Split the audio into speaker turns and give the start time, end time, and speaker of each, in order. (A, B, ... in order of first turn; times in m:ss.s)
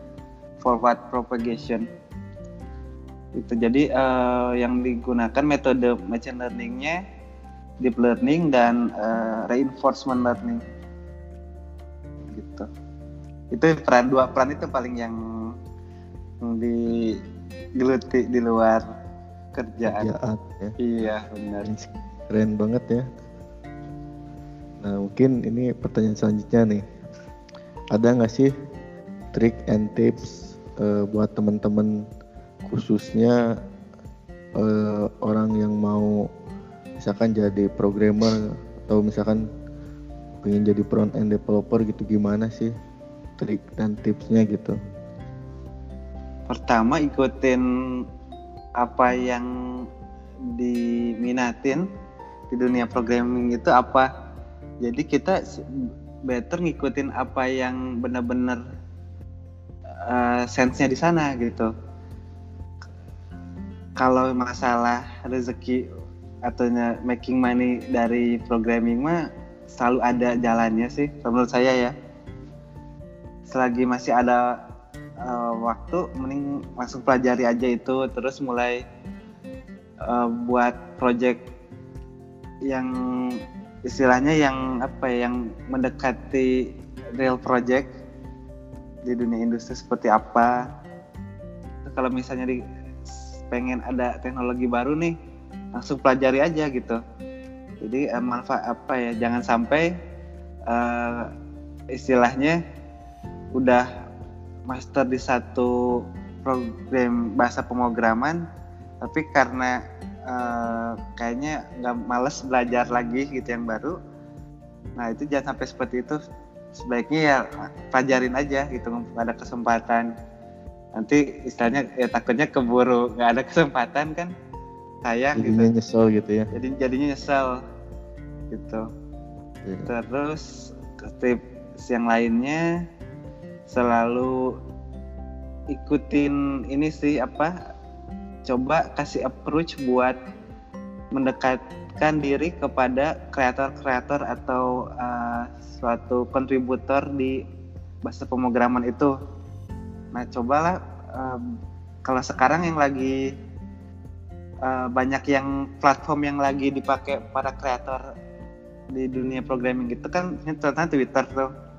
0:00.6-0:01.9 A
0:03.4-0:07.0 A
0:07.8-0:10.6 A
0:12.3-0:12.7 A
0:13.5-0:15.2 A
0:16.4-0:17.2 A
0:17.8-0:18.8 A
0:19.6-0:20.1 A
0:19.9-0:20.8 B
0:20.8-0:21.7 A
0:21.6-0:23.1 B
0:24.8-0:26.8 B
0:27.9-0:28.5 B
0:29.3-0:32.0 B
0:32.6-0:33.4 B
0:34.6-0:36.2 B
0:37.0-0:39.4 B
0:40.4-0:42.7 B
0:43.4-0:44.8 B
0:46.5-0:48.0 A
0:48.8-0:49.5 A
0:50.5-0:51.8 A
0:52.5-0:54.1 A
0:54.8-0:58.6 A
1:00.1-1:01.7 A
1:04.0-1:05.8 A
1:06.4-1:09.2 A
1:09.7-1:11.9 A
1:13.5-1:14.5 A
1:15.2-1:18.8 A
1:20.1-1:21.4 A
1:22.7-1:26.6 A
1:27.2-1:27.9 A
1:29.1-1:30.6 A
1:31.9-1:32.6 A
1:33.5-1:35.1 A
1:35.8-1:37.0 A
1:37.8-1:39.9 A
1:40.7-1:41.3 A
1:41.9-1:42.6 A
1:43.6-1:43.9 A
1:44.7-1:48.4 A
1:49.0-1:49.8 A
1:50.3-1:54.0 A
1:55.0-1:56.2 A
1:56.8-2:00.1 A
2:01.0-2:04.3 A
2:05.0-2:05.7 A
2:05.4-2:06.5 B
2:06.5-2:07.6 A
2:08.5-2:08.9 A
2:09.6-2:09.9 B
2:09.9-2:10.5 A
2:11.1-2:12.6 A
2:13.7-2:14.4 A
2:15.7-2:17.5 A
2:18.5-2:20.2 A
2:21.1-2:27.4 A
2:28.0-2:29.1 A
2:30.1-2:31.4 A
2:32.0-2:33.2 A
2:34.6-2:38.0 A
2:38.9-2:41.5 A